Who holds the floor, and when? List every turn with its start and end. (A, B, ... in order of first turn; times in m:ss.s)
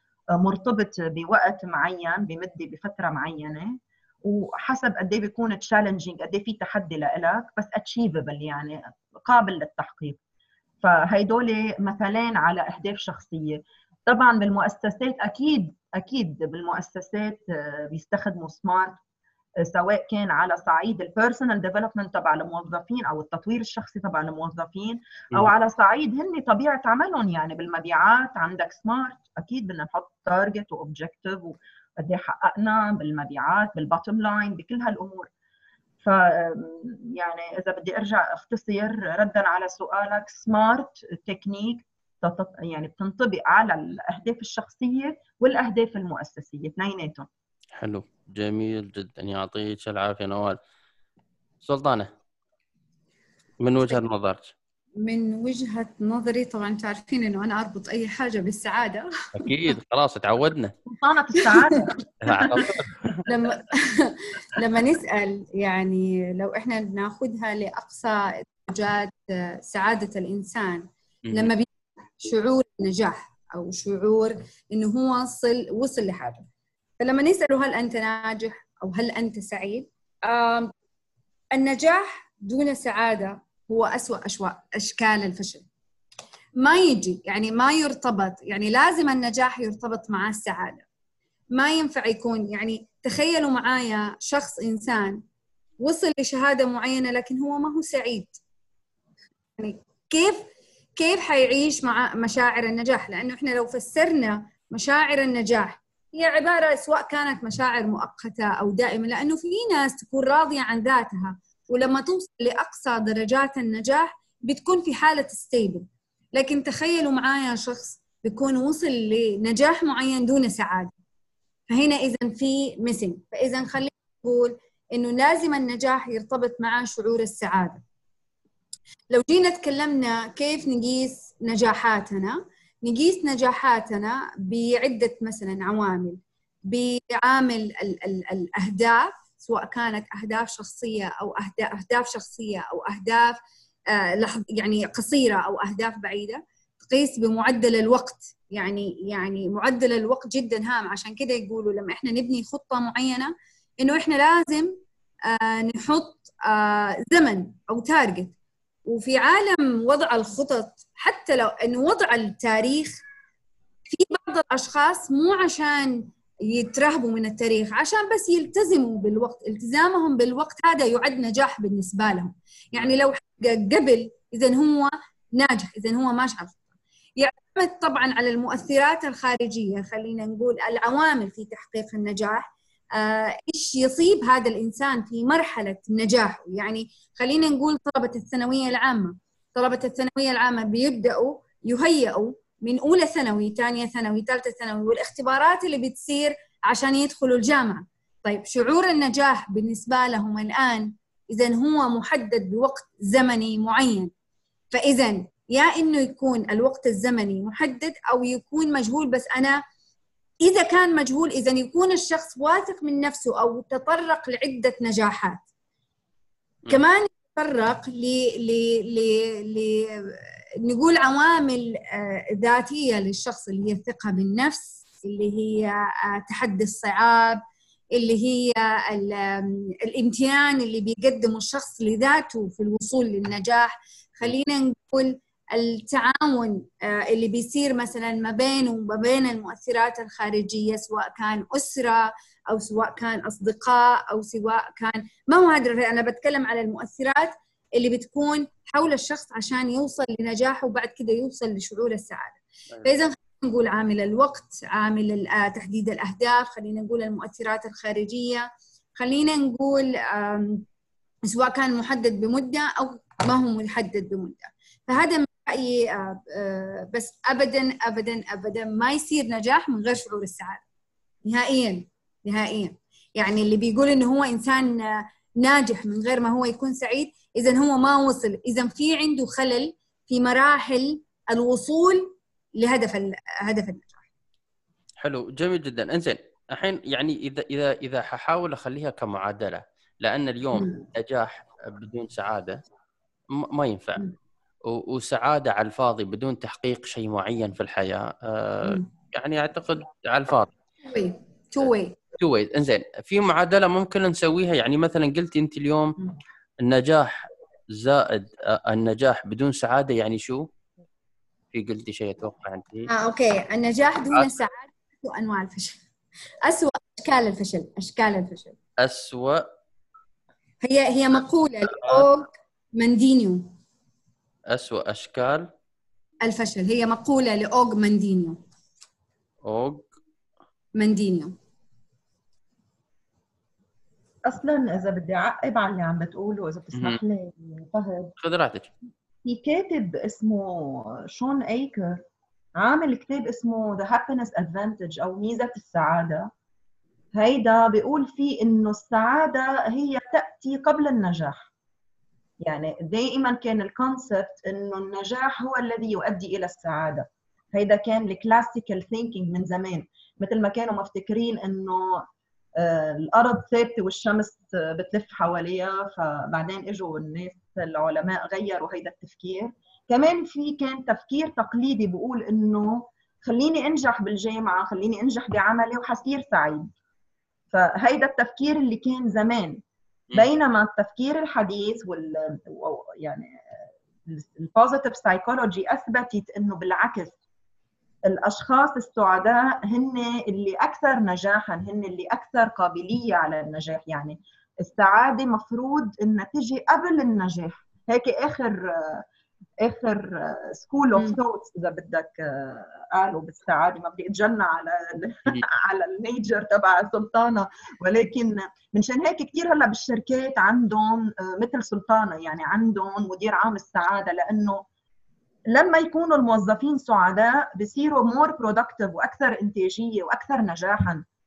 0:00.4-0:10.2 A
0:10.8-0:19.0 A
0:19.6-0:35.3 A
0:36.0-0:47.3 A
0:47.8-0:50.6 B
0:51.6-0:52.1 B
0:53.6-0:54.5 B
0:55.0-0:59.1 C
0:59.4-1:00.7 B
1:00.9-1:02.7 A
1:01.4-1:01.8 C
1:02.2-1:03.2 B
1:03.3-1:11.7 C
1:12.2-1:16.5 C
1:17.0-1:20.7 C
1:21.5-1:25.7 C
1:26.6-1:30.8 C
1:31.6-1:35.2 C
1:35.8-1:38.4 C
1:39.6-2:00.9 C
2:01.7-2:07.8 C
2:09.1-2:23.4 C
2:23.9-2:34.8 C
2:35.3-2:38.3 C
2:38.9-2:43.0 C
2:43.9-2:56.6 C
2:57.2-3:24.1 C
3:24.7-3:29.6 C
3:30.4-3:35.4 C
3:36.7-3:47.4 C
3:47.9-4:20.6 C
4:21.3-4:30.6 C
4:31.3-4:44.0 C
4:45.0-4:52.6 B
4:50.5-4:50.8 C
4:53.3-4:54.0 B
4:54.7-5:00.5 B
5:00.8-5:02.0 C
5:01.6-5:05.9 B
5:06.6-5:10.5 B
5:11.5-5:12.9 B
5:12.9-5:15.8 C
5:16.5-5:18.6 C
5:18.8-5:19.5 B
5:20.6-5:23.5 C
5:21.8-5:22.1 B
5:24.5-5:25.5 B
5:26.2-5:28.4 C
5:29.4-5:29.9 B
5:30.8-5:31.4 C
5:34.3-5:38.1 A
5:38.2-5:38.7 B
5:39.2-5:42.0 A
5:42.6-5:46.3 A
5:47.1-5:51.5 A
5:52.4-6:02.1 A
6:02.6-6:16.7 A
6:17.5-6:19.6 A
6:20.1-6:27.2 A
6:28.1-6:39.0 A
6:39.6-6:54.6 A
6:55.5-7:01.1 A